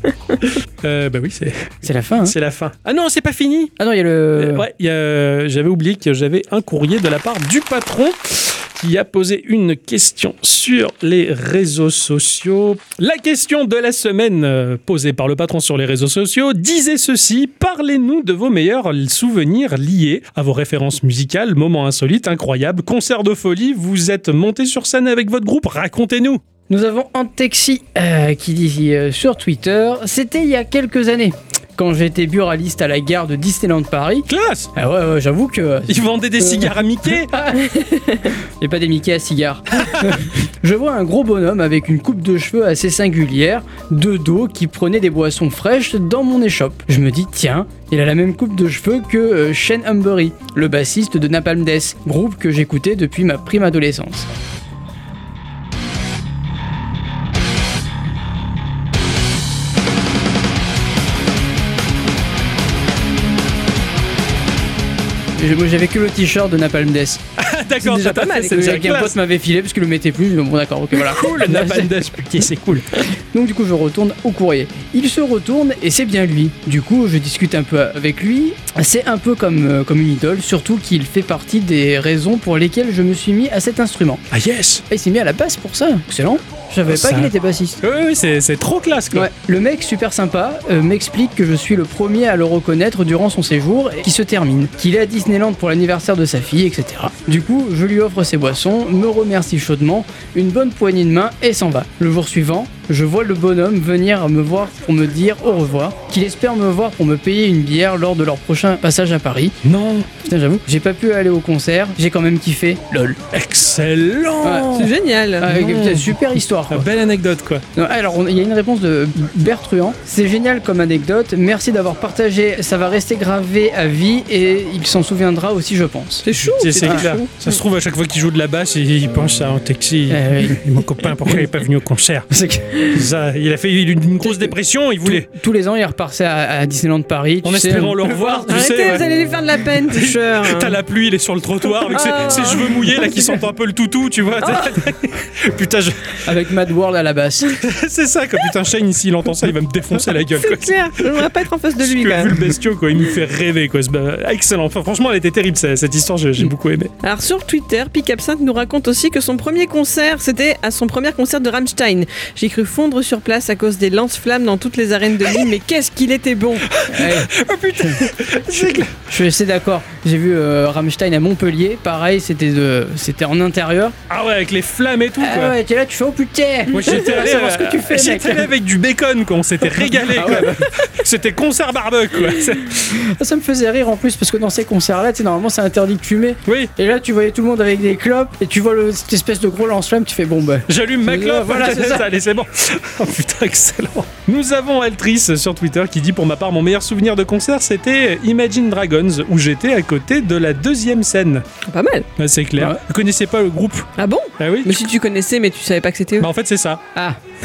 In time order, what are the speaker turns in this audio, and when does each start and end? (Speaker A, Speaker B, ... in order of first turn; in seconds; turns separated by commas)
Speaker A: 0.8-3.7, Speaker B: 1.8-2.4, Speaker B: 3.8-4.7, Speaker A: 4.4-26.4, Speaker B: 26.7-54.3, Speaker A: 34.3-34.7, Speaker A: 35.9-37.4, Speaker B: 65.4-67.2, Speaker A: 67.4-69.2, Speaker B: 67.8-72.0, Speaker A: 71.1-72.9, Speaker B: 73.3-84.2, Speaker A: 84.3-84.8, Speaker B: 84.9-87.8, Speaker A: 86.9-87.3, Speaker A: 87.8-89.3, Speaker B: 89.1-109.6, Speaker A: 109.6-110.1, Speaker B: 110.2-113.2, Speaker A: 113.3-114.9, Speaker B: 114.4-114.8, Speaker C: 114.8-115.5, Speaker B: 115.4-116.9, Speaker A: 115.4-116.2, Speaker A: 116.7-117.6, Speaker B: 117.8-126.3, Speaker C: 126.2-127.3, Speaker A: 126.4-132.3, Speaker B: 130.1-130.7, Speaker B: 132.3-133.0, Speaker A: 132.8-135.3, Speaker B: 134.2-139.0, Speaker A: 137.4-139.0, Speaker C: 138.5-140.8, Speaker A: 139.9-146.3, Speaker C: 141.9-143.3, Speaker B: 146.2-147.6, Speaker A: 147.6-151.3, Speaker C: 150.4-152.3, Speaker A: 151.8-156.9, Speaker C: 157.0-166.7, Speaker A: 166.7-169.0, Speaker B: 166.9-174.0, Speaker A: 174.1-175.6, Speaker B: 175.2-178.5, Speaker A: 176.7-182.9, Speaker B: 180.1-180.7, Speaker B: 182.8-192.1, Speaker A: 186.5-186.7, Speaker A: 190.7-201.4, Speaker C: 201.7-202.1, Speaker A: 202.2-203.9, Speaker C: 204.0-206.3, Speaker A: 204.4-204.8, Speaker A: 206.2-206.8, Speaker B: 206.9-207.2